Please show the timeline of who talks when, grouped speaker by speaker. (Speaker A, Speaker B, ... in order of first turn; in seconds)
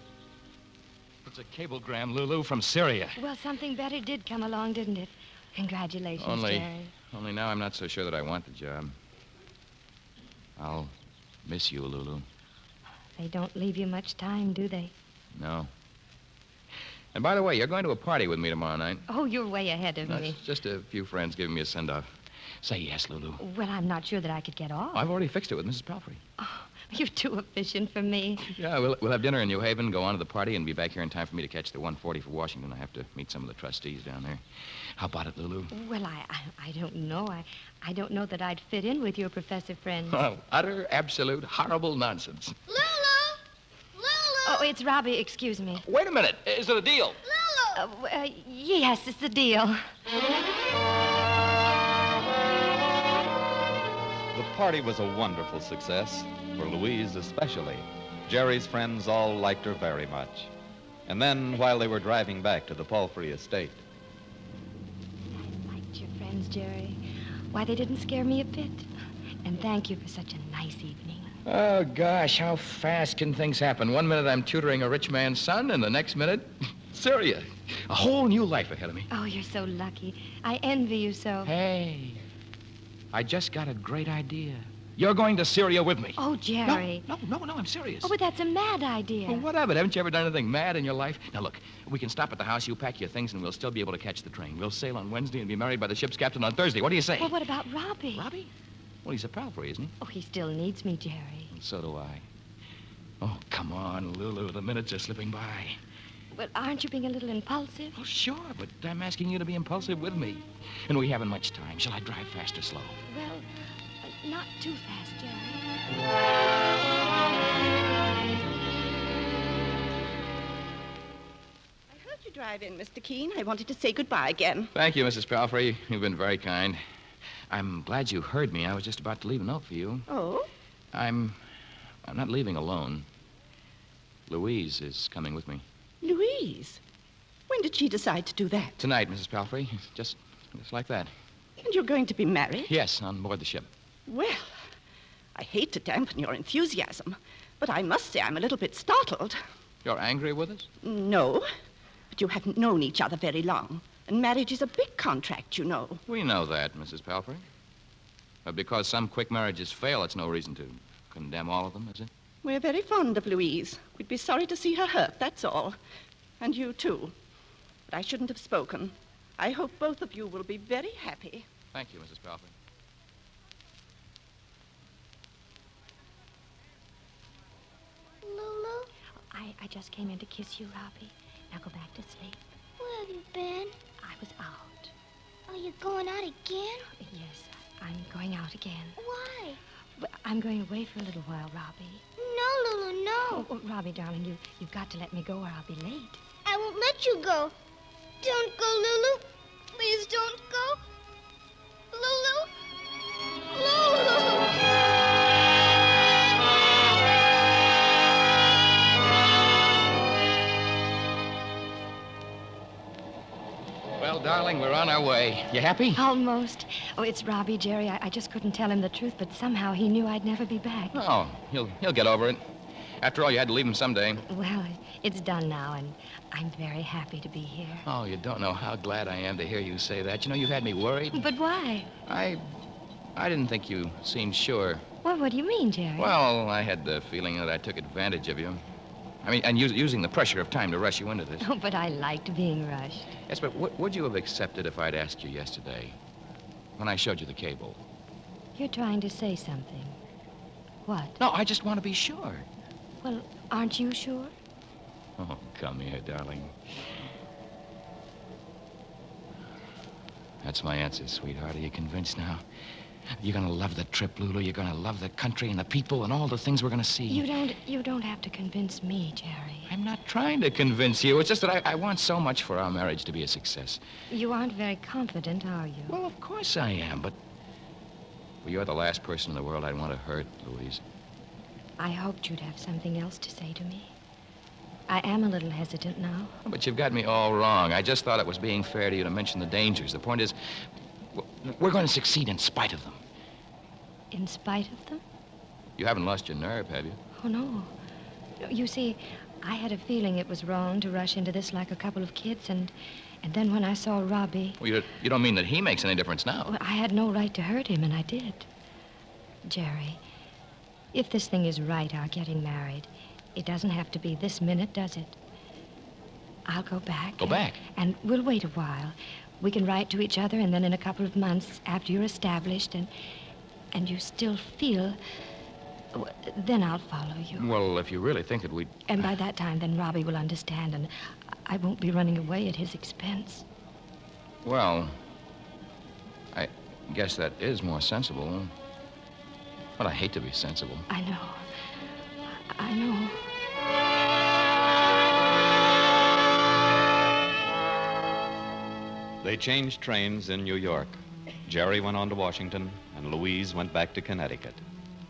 Speaker A: 1.2-3.2, 6.2-8.9, 10.6-10.9, 11.4-12.2, 15.4-15.7, 17.1-19.1, 20.1-22.1, 22.6-23.4, 24.9-26.2, 28.4-34.4, 35.0-35.7, 40.1-42.6, 45.9-47.2, 71.5-79.1, 81.4-82.2, 83.1-88.1, 89.3-97.3, 98.2-98.5, 99.0-99.9, 101.5-102.2, 103.2-105.8, 108.0-113.0, 124.8-126.8, 127.5-130.1, 130.9-131.4, 132.1-133.1, 134.3-135.6, 138.8-141.1, 142.7-143.7, 149.8-150.7, 156.1-157.4, 158.4-162.1, 171.7-172.5, 214.0-216.0, 220.9-222.4, 223.0-224.2, 227.8-231.2, 232.1-232.4, 233.2-234.8, 236.0-238.6, 239.2-241.4, 243.3-245.9, 246.8-247.8, 251.2-252.4, 255.2-256.6, 260.4-262.4, 263.2-267.2, 269.7-273.8, 275.9-277.1, 278.4-280.8, 286.4-290.4, 291.1-293.0, 295.8-297.0, 304.6-306.5, 317.2-317.6, 327.4-328.9, 334.4-335.0, 336.3-338.5, 339.8-340.9
Speaker B: 3.2-6.9, 13.2-14.9, 19.1-20.4, 23.4-25.0, 26.4-28.5, 35.7-40.2, 44.5-45.8, 47.8-49.8, 65.3-67.0, 67.5-68.9, 69.5-71.3, 79.1-81.5, 86.2-87.1, 88.0-89.5, 97.2-98.3, 100.0-101.5, 106.3-108.0, 113.1-113.5, 114.0-115.7, 179.3-182.4, 184.0-184.9, 187.0-189.0, 190.0-192.0, 193.3-196.2, 215.9-221.0, 224.3-227.9, 231.1-231.9, 235.0-236.1, 241.4-243.2, 248.6-250.0, 250.9-251.2, 253.0-254.3, 267.1-269.7, 274.1-276.0, 281.8-283.9, 284.9-286.3, 294.1-295.0, 297.2-297.7, 298.4-304.6, 306.5-308.5, 309.5-310.0, 310.9-315.2, 316.5-322.9, 323.7-325.0, 325.9-327.5, 328.9-330.9, 331.4-333.4, 340.9-341.5, 342.4-343.2
Speaker C: 42.7-43.4, 44.0-44.7, 47.2-47.8, 178.2-178.9, 182.8-183.8, 185.5-186.9, 189.0-189.6, 192.2-193.5, 196.4-197.5, 198.2-200.8, 201.9-202.5, 203.5-204.5
Speaker D: 54.3-60.5, 61.1-63.8, 349.2-354.6
Speaker E: 121.9-124.7, 130.1-130.5, 136.0-136.8, 137.5-138.8, 141.6-142.7, 144.1-144.6, 145.3-149.4, 150.8-151.5, 152.1-156.0, 162.4-165.8, 166.4-167.2, 167.9-171.5